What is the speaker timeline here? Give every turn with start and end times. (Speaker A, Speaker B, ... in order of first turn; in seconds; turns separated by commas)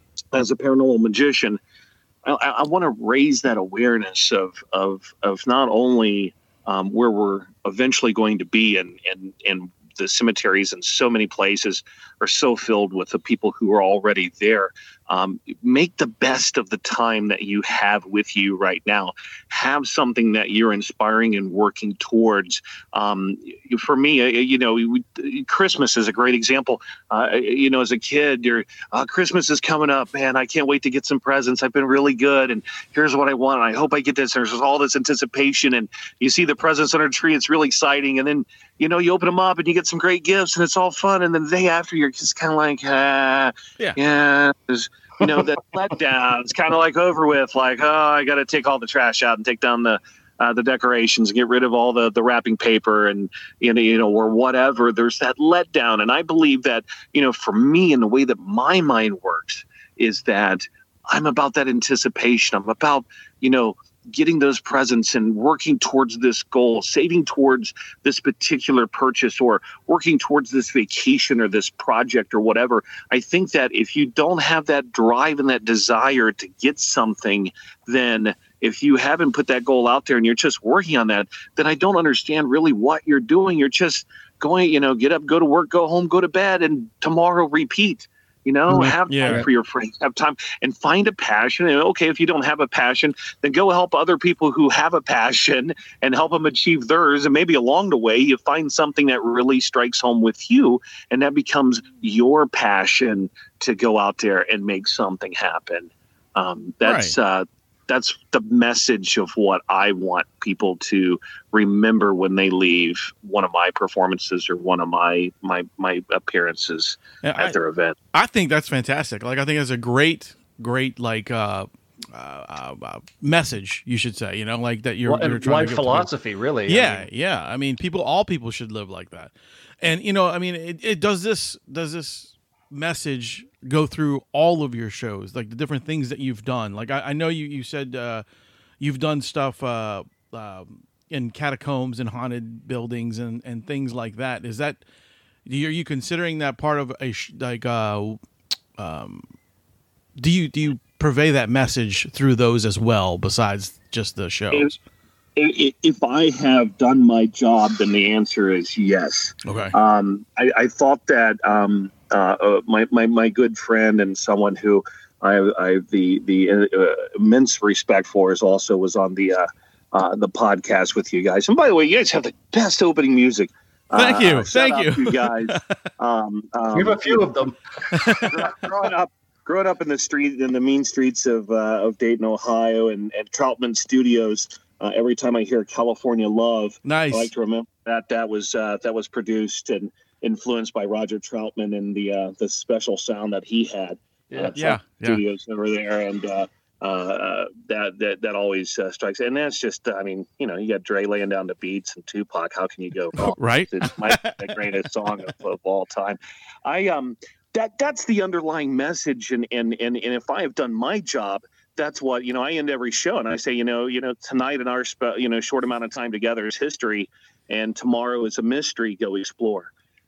Speaker A: 0.3-1.6, Speaker A: 2.2-118.0, Speaker B: 88.7-89.5, Speaker C: 89.1-89.5, Speaker C: 106.8-107.2, Speaker C: 117.2-117.6, Speaker C: 118.1-126.1, Speaker B: 125.1-127.1, Speaker C: 126.7-138.2, Speaker C: 138.8-144.8, Speaker C: 145.4-148.2, Speaker C: 148.8-149.2, Speaker C: 150.2-154.8, Speaker A: 155.4-177.2, Speaker C: 159.4-159.8, Speaker C: 173.9-175.8, Speaker B: 176.8-177.6, Speaker C: 177.9-178.4, Speaker A: 178.2-219.7, Speaker C: 186.8-187.3, Speaker B: 194.3-194.6, Speaker C: 194.6-195.2, Speaker C: 203.2-204.8